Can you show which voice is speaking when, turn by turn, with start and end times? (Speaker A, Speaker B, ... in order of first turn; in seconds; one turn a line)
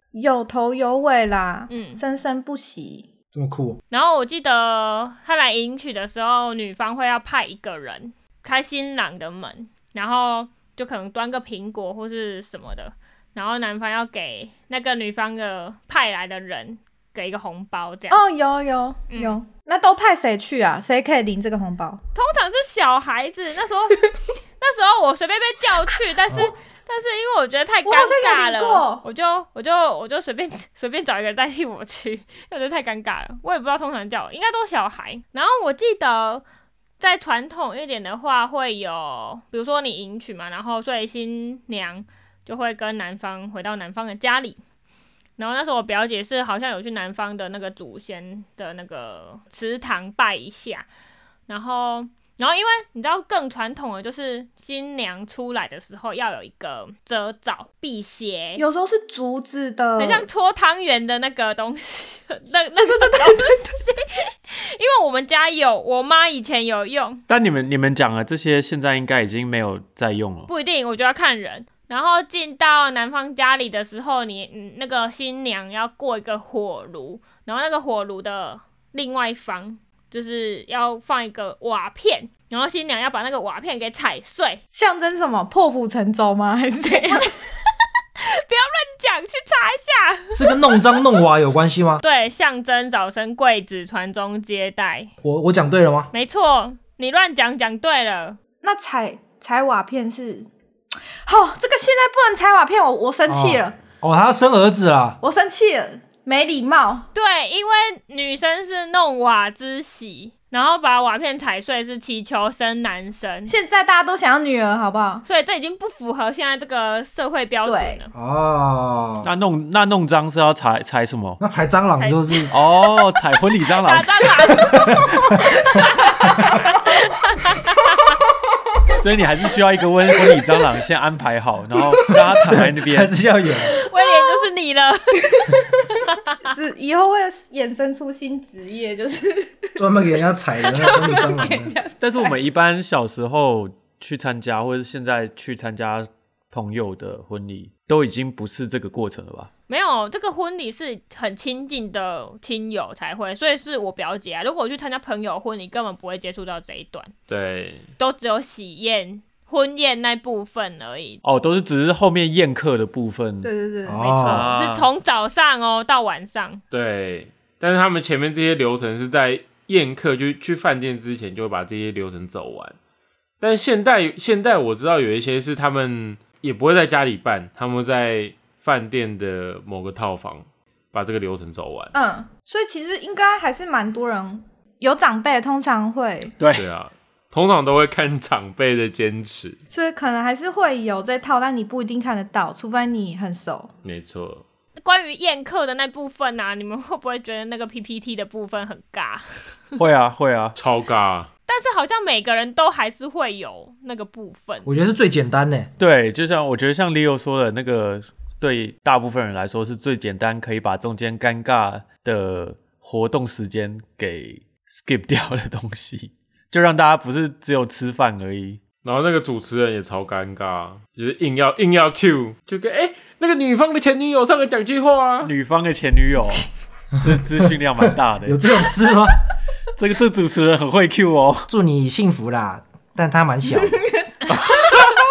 Speaker A: 0.1-3.1
Speaker B: 1.7-2.0
Speaker C: 3.3-3.8
Speaker B: 3.9-18.2
Speaker A: 18.1-22.0
Speaker B: 19.1-19.4
Speaker B: 22.1-24.0
Speaker B: 24.6-36.4
Speaker A: 27.8-29.0
Speaker B: 37.0-44.6
Speaker B: 45.4-50.9
Speaker B: 51.5-58.6
Speaker A: 58.6-60.2
Speaker B: 60.0-67.2
Speaker A: 62.8-63.7
Speaker D: 67.3-70.5
Speaker B: 70.5-84.6
Speaker A: 84.7-87.3
Speaker B: 88.2-90.9
Speaker C: 90.3-92.0
Speaker B: 92.0-95.1
Speaker C: 95.2-96.1
Speaker B: 96.1-98.4
Speaker A: 98.6-100.5
Speaker A: 101.2-103.8
Speaker C: 103.3-105.2
Speaker A: 105.2-107.1
Speaker B: 107.1-113.5
Speaker A: 113.5-115.2
Speaker B: 115.2-118.1
Speaker A: 117.6-118.0
Speaker C: 118.1-119.3
Speaker D: 119.2-121.4
Speaker C: 121.4-122.5
Speaker B: 122.0-123.0
Speaker D: 122.5-124.3
Speaker B: 123.7-128.2
Speaker C: 124.6-125.4
Speaker D: 129.0-133.1
Speaker C: 132.0-133.8
Speaker B: 133.7-135.6
Speaker A: 133.8-134.4
Speaker A: 135.3-139.8
Speaker C: 139.8-141.8
Speaker A: 140.6-142.3
Speaker D: 142.0-149.5
Speaker B: 149.7-157.1
Speaker E: 157.3-157.9
Speaker B: 158.0-161.2
Speaker D: 161.2-163.5
Speaker A: 163.4-164.0
Speaker C: 163.8-164.5
Speaker B: 164.0-166.6
Speaker D: 164.2-164.9
Speaker E: 166.7-172.8
Speaker E: 173.4-181.9
Speaker A: 181.9-186.3
Speaker D: 186.4-186.7
Speaker E: 186.5-189.6
Speaker A: 189.7-193.7
Speaker E: 193.8-194.4
Speaker B: 194.8-199.2
Speaker D: 199.7-200.6
Speaker E: 200.6-201.3
Speaker B: 201.5-204.7
Speaker C: 204.7-205.7
Speaker D: 205.8-218.6
Speaker E: 218.8-225.3
Speaker D: 225.2-226.5
Speaker D: 227.0-228.4
Speaker C: 227.1-229.2
Speaker D: 229.8-231.5
Speaker C: 231.5-233.8